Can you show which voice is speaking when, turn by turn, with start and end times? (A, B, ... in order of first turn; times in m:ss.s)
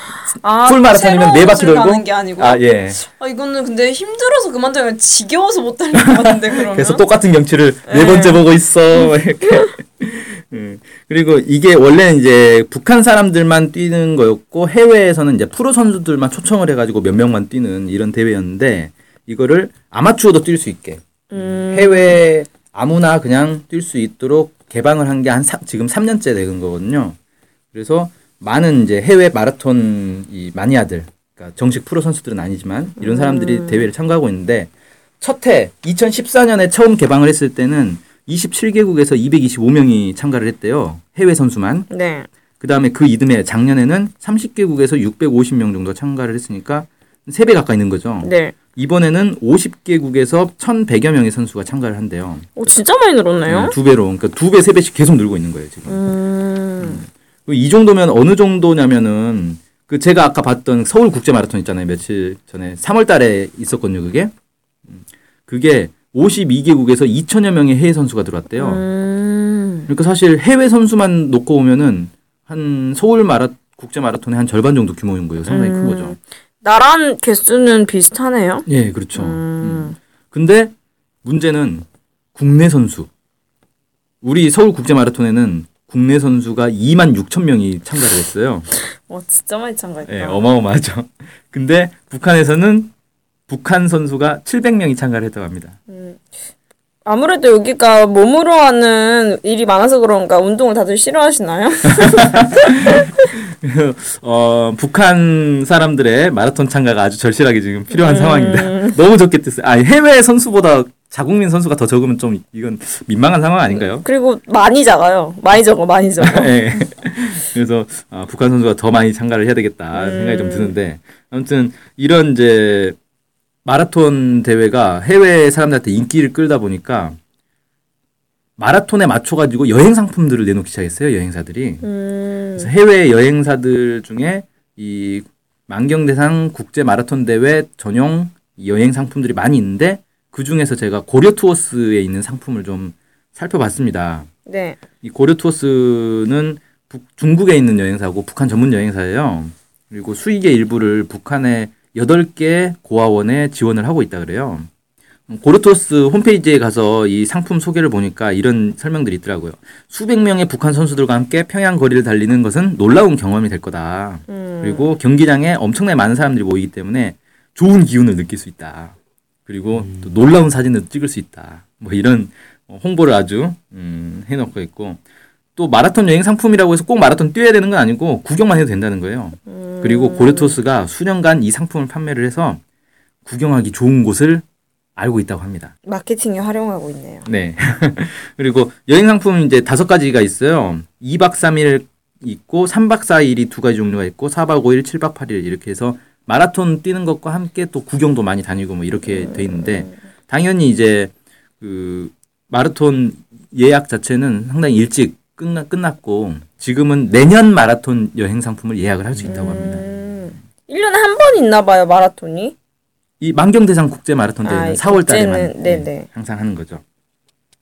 0:00.4-0:07.0 A
0:00.6-0:03.0 B
0:05.9-0:27.1 B
0:07.9-0:08.4 A
0:21.3-0:22.2 A
0:27.7-0:41.9 B
0:33.0-0:33.9 A
0:41.9-0:42.3 A
0:42.6-0:52.8 B
0:48.2-0:48.5 A
0:52.6-0:53.8 A
0:53.4-0:56.0 B
0:55.9-0:57.0 A
0:56.8-1:04.3 B
1:04.9-1:08.8 B
1:08.6-1:09.9 A
1:09.9-1:16.2 B
1:15.5-1:20.0 A
1:18.6-1:20.7 B
1:21.2-1:23.1 B
1:24.2-1:28.7 B
1:29.1-1:30.4 A
1:30.0-1:32.9 B
1:33.5-1:35.8 B
1:35.9-1:36.2 A
1:37.0-1:43.1 A
1:41.9-1:54.0 B
1:47.9-1:49.0 A
1:53.7-1:56.8 A
1:56.2-2:03.0 B
1:59.9-2:00.7 A
2:03.6-2:07.2 B
2:08.6-2:11.8 B
2:11.8-2:12.7 A
2:12.6-2:24.3 B
2:24.4-2:24.8 A
2:25.0-2:34.7 B
2:35.3-2:48.9 B
2:44.3-2:44.9 A
2:49.5-2:55.0 B
2:55.6-3:02.6 B
2:59.5-3:00.6 A
3:03.2-3:04.4 B
3:05.0-3:05.7 B
3:05.8-3:07.2 A
3:07.2-3:29.8 B
3:29.2-3:32.5 A
3:33.2-3:36.8 B
3:34.4-3:36.1 A